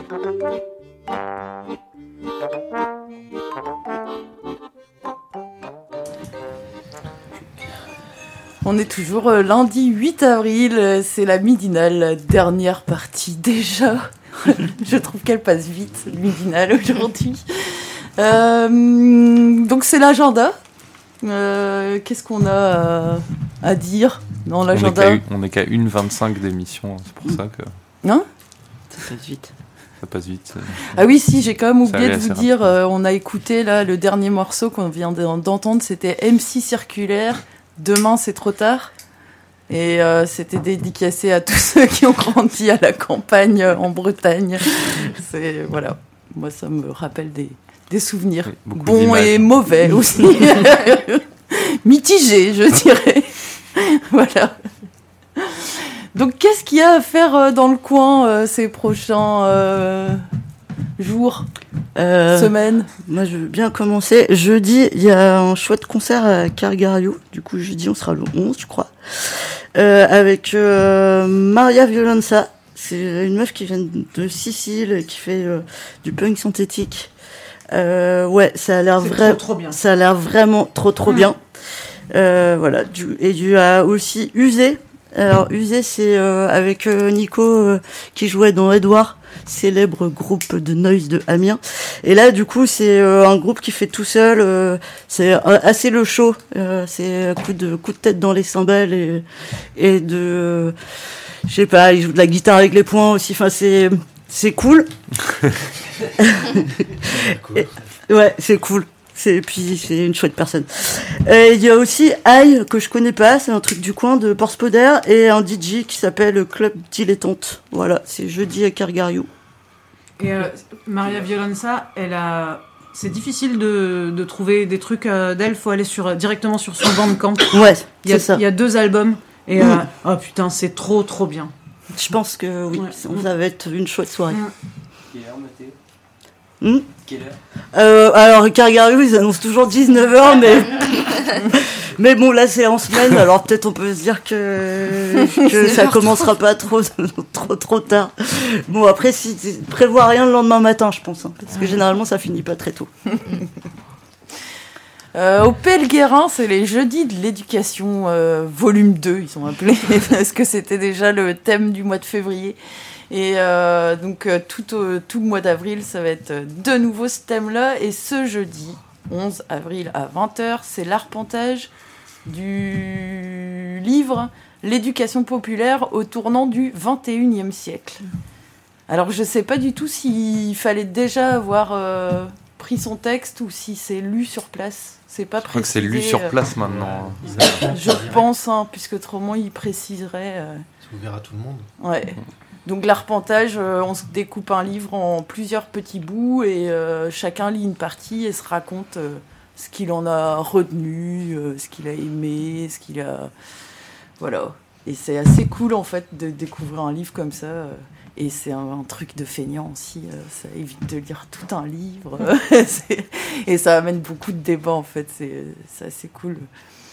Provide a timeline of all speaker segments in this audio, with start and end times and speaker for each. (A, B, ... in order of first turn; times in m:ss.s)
0:08.6-0:20.6 A
0:21.2-0:25.2 A
0:24.7-0:27.7 B
0:29.0-0:29.5 C
0:30.0-0:31.0 B
0:30.9-0:38.9 A
0:31.8-0:32.5 B
0:39.7-0:54.6 A
0:48.5-0:49.5 B
0:55.4-1:00.2 A
1:01.0-1:01.5 A
1:02.0-1:02.5 C
1:02.3-1:02.9 A
1:03.0-1:17.1 C
1:17.7-1:21.4 C
1:19.0-1:19.8 D
1:22.1-1:40.8 C
1:41.4-1:44.9 C
1:46.2-1:59.3 C
1:47.3-1:47.7 E
2:00.2-2:11.5 D
2:07.5-2:08.4 C
2:11.9-2:14.4 C
2:16.6-2:32.9 C
2:35.1-2:42.6 A
2:43.1-2:51.7 A
2:52.2-2:58.0 A
2:58.9-3:06.4 A
3:05.5-3:07.7 B
3:06.6-3:08.2 E
3:07.3-3:10.6 A
3:10.8-3:11.7 E
3:11.8-3:23.3 A
3:24.2-3:36.5 A